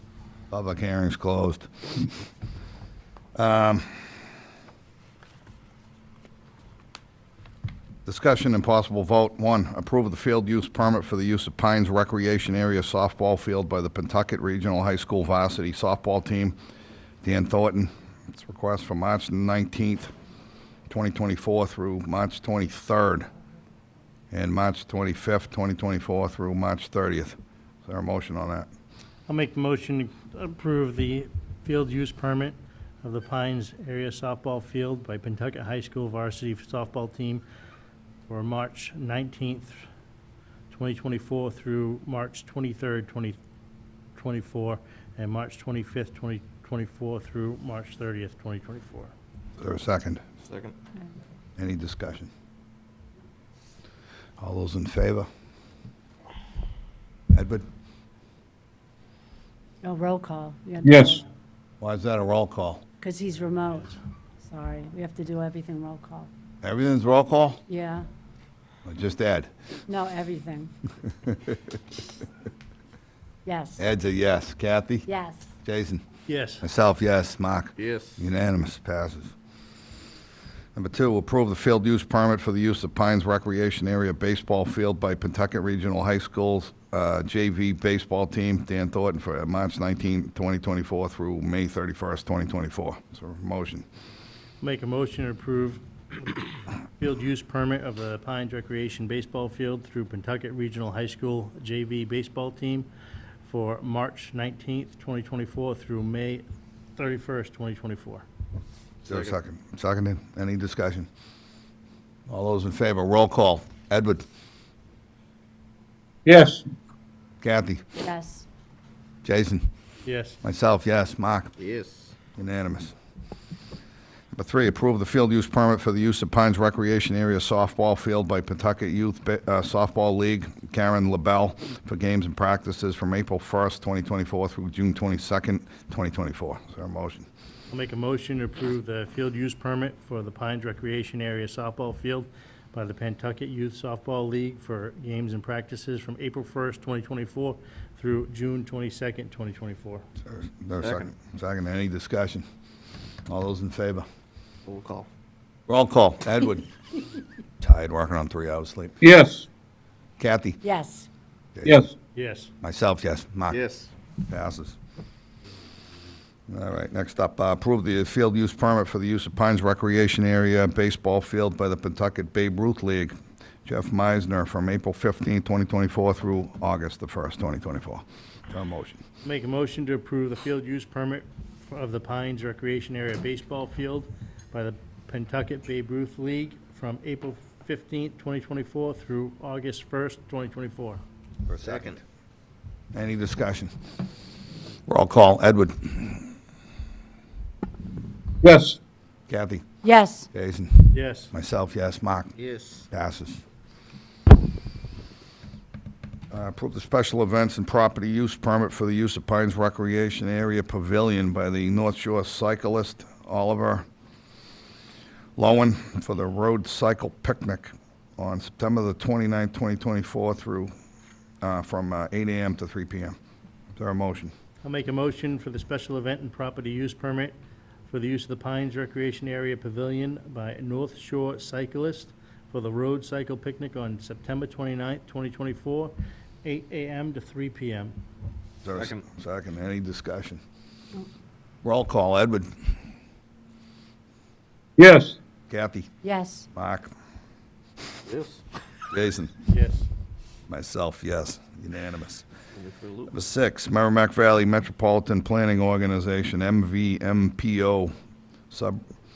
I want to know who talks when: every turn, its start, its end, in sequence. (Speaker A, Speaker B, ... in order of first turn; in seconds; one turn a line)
Speaker A: 0.5-1.7
Speaker A: 3.4-4.0
Speaker A: 8.1-16.6
Speaker A: 17.2-20.1
Speaker A: 20.9-23.3
Speaker A: 24.3-28.7
Speaker B: 29.3-37.4
Speaker B: 38.3-39.8
Speaker B: 40.7-43.4
Speaker B: 44.1-49.1
Speaker A: 49.6-50.2
Speaker C: 50.4-50.7
Speaker A: 51.6-52.3
Speaker A: 54.4-55.3
Speaker A: 57.3-57.6
Speaker D: 59.8-61.2
Speaker E: 60.8-61.2
Speaker A: 61.8-62.8
Speaker D: 63.0-66.3
Speaker A: 66.6-67.6
Speaker D: 67.7-68.0
Speaker A: 68.8-69.5
Speaker D: 69.9-70.7
Speaker D: 73.4-73.8
Speaker A: 73.8-75.0
Speaker D: 75.0-75.5
Speaker A: 75.6-76.0
Speaker B: 76.3-76.6
Speaker A: 76.6-79.3
Speaker C: 77.8-78.2
Speaker A: 80.7-93.8
Speaker B: 94.6-95.8
Speaker B: 97.0-102.9
Speaker B: 103.4-106.4
Speaker B: 107.0-108.2
Speaker C: 109.0-109.3
Speaker A: 109.1-111.1
Speaker A: 112.3-114.2
Speaker E: 116.2-116.6
Speaker A: 117.4-117.8
Speaker D: 118.0-118.4
Speaker A: 119.2-119.6
Speaker B: 120.0-120.4
Speaker A: 120.4-121.5
Speaker C: 121.6-122.1
Speaker A: 122.4-122.9
Speaker A: 124.3-137.3
Speaker B: 137.7-150.0
Speaker A: 150.3-152.4
Speaker C: 150.8-151.1
Speaker A: 153.3-154.1
Speaker C: 154.7-155.1
Speaker A: 155.7-156.7
Speaker A: 157.6-159.0
Speaker E: 159.0-159.4
Speaker A: 160.2-160.6
Speaker D: 160.6-161.1
Speaker A: 161.6-161.8
Speaker E: 161.6-161.9
Speaker B: 162.1-162.5
Speaker A: 162.6-163.6
Speaker C: 163.5-163.9
Speaker A: 164.3-164.8
Speaker A: 166.5-179.0
Speaker B: 179.2-191.0
Speaker A: 191.5-192.0
Speaker C: 191.6-192.0
Speaker A: 192.9-193.7
Speaker A: 194.9-196.3
Speaker E: 198.4-198.8
Speaker A: 199.3-199.7
Speaker D: 199.8-200.3
Speaker A: 200.3-202.3
Speaker B: 200.9-201.3
Speaker C: 202.4-202.8
Speaker A: 202.9-203.4
Speaker A: 206.3-213.8
Speaker A: 215.4-220.7
Speaker A: 221.4-223.2
Speaker A: 223.8-224.3
Speaker B: 224.6-227.3
Speaker B: 227.9-237.9
Speaker A: 238.6-240.4
Speaker C: 238.7-239.0
Speaker A: 241.6-242.5
Speaker E: 244.8-245.2
Speaker A: 245.5-245.9
Speaker D: 246.0-246.5
Speaker A: 246.5-246.9
Speaker C: 248.0-248.4
Speaker A: 248.9-249.3
Speaker B: 249.5-249.9
Speaker A: 250.5-252.2
Speaker C: 252.6-253.1
Speaker A: 253.1-257.9
Speaker A: 258.5-258.8